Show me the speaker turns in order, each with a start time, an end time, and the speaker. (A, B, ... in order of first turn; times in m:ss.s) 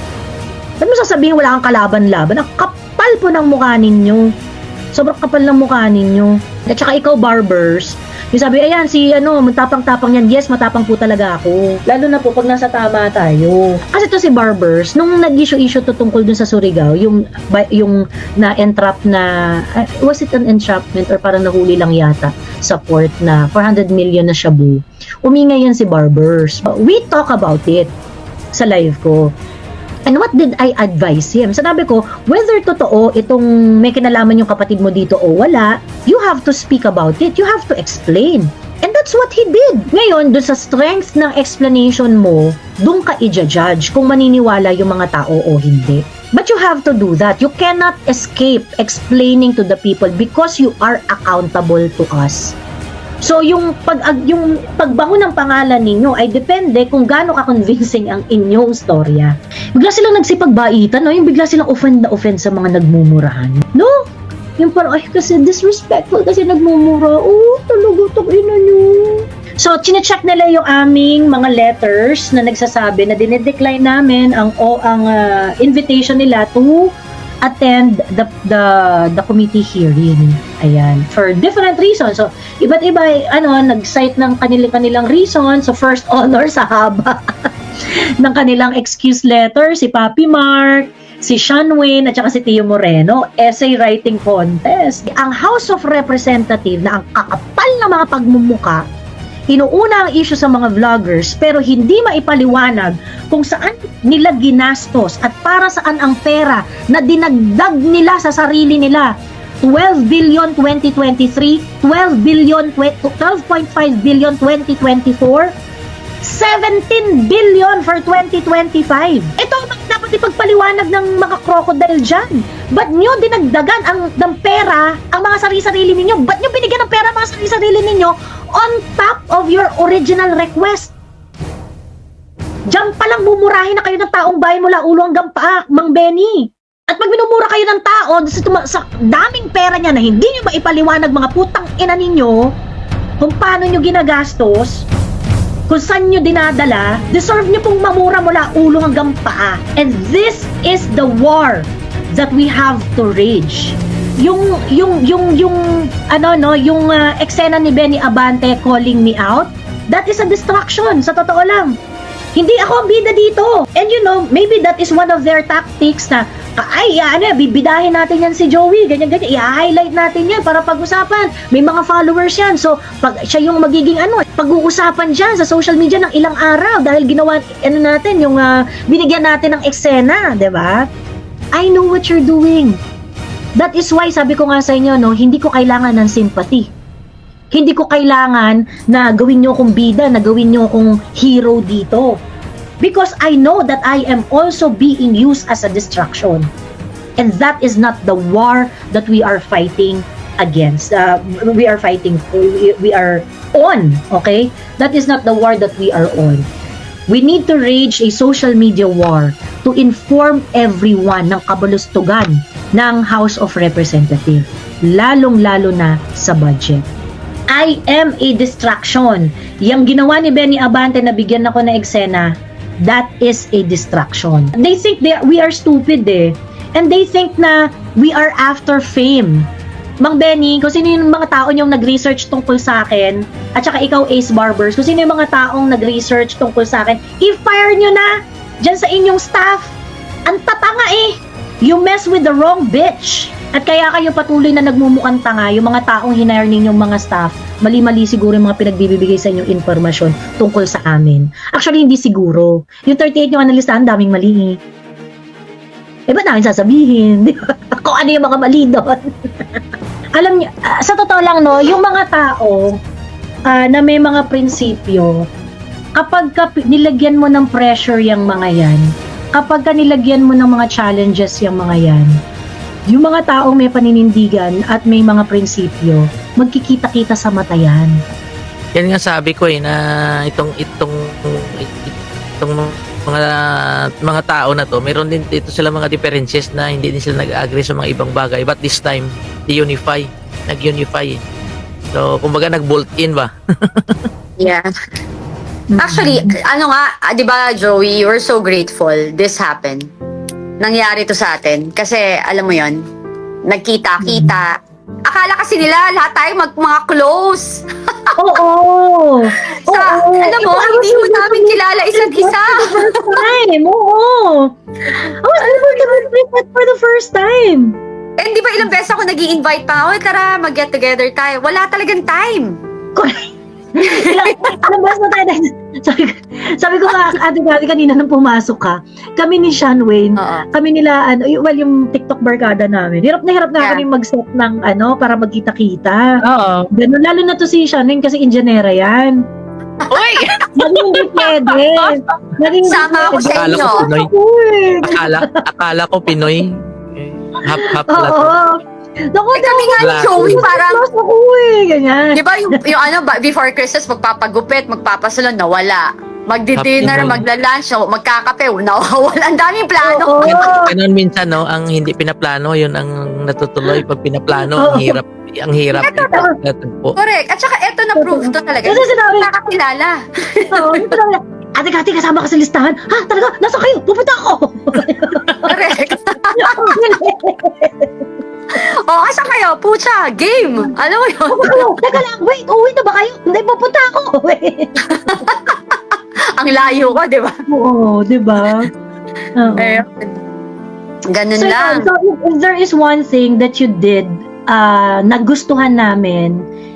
0:00.8-0:04.3 A
0:04.9-0:27.9 A
0:28.5-0:29.3 A
0:30.1-0:52.6 A
0:53.2-1:03.9 A
1:04.6-1:16.9 A
1:17.4-1:27.2 A
1:28.2-1:38.8 A
1:39.5-1:55.5 A
1:56.2-2:10.9 A
2:12.7-2:22.5 A
2:23.2-2:24.9 A
2:25.7-2:41.8 A
2:42.4-3:00.9 A
3:01.5-3:02.8 A
3:03.6-3:06.7 A
3:07.5-3:12.2 A
3:12.8-3:16.5 A
3:17.2-3:26.5 A
3:27.1-3:36.8 A
3:37.5-3:49.5 A
3:50.0-3:58.1 A
3:58.6-3:59.7 A
4:00.3-4:14.6 A
4:16.1-4:19.1 A
4:20.2-4:22.8 A
4:23.5-4:25.2 A
4:26.0-4:32.1 A
4:32.9-4:38.0 A
4:38.7-4:39.8 B
4:40.3-4:43.3 B
4:44.0-4:51.2 B
4:51.9-4:54.1 B
4:54.4-4:54.7 C
4:55.7-4:56.4 A
4:55.8-4:59.9 C
5:00.6-5:02.8 C
5:03.4-5:04.5 C
5:04.0-5:04.4 A
5:05.1-5:08.1 C
5:08.2-5:17.8 A
5:09.4-5:13.3 C
5:15.4-5:16.0 C
5:18.2-5:22.6 C
5:23.0-5:36.2 A
5:23.8-5:24.6 C
5:30.2-5:30.4 C
5:33.6-5:33.8 C
5:36.3-5:36.6 B
5:36.7-5:39.2 A
5:39.9-5:41.5 C
5:39.9-5:40.3 B
5:40.5-5:45.4 A
5:42.6-5:43.9 C
5:43.2-5:44.1 B
5:44.8-5:46.6 B
5:47.3-5:48.4 B
5:47.6-5:48.6 A
5:49.1-5:52.2 A
5:49.3-5:50.8 C
5:49.8-5:50.4 B
5:52.1-6:00.5 C
5:56.5-5:57.2 B
5:59.8-6:00.7 A
6:00.2-6:07.0 B
6:04.6-6:05.0 A
6:05.7-6:06.2 C
6:06.1-6:06.3 A
6:07.0-6:10.9 C
6:08.0-6:09.3 A
6:10.5-6:15.5 A
6:15.4-6:16.8 C
6:16.4-6:17.9 A
6:18.5-6:22.0 C
6:21.3-6:24.9 A
6:24.8-6:27.3 C
6:27.5-6:28.7 A
6:29.3-6:29.8 A
6:29.6-6:30.2 C
6:31.1-6:31.9 C
6:31.3-6:36.5 A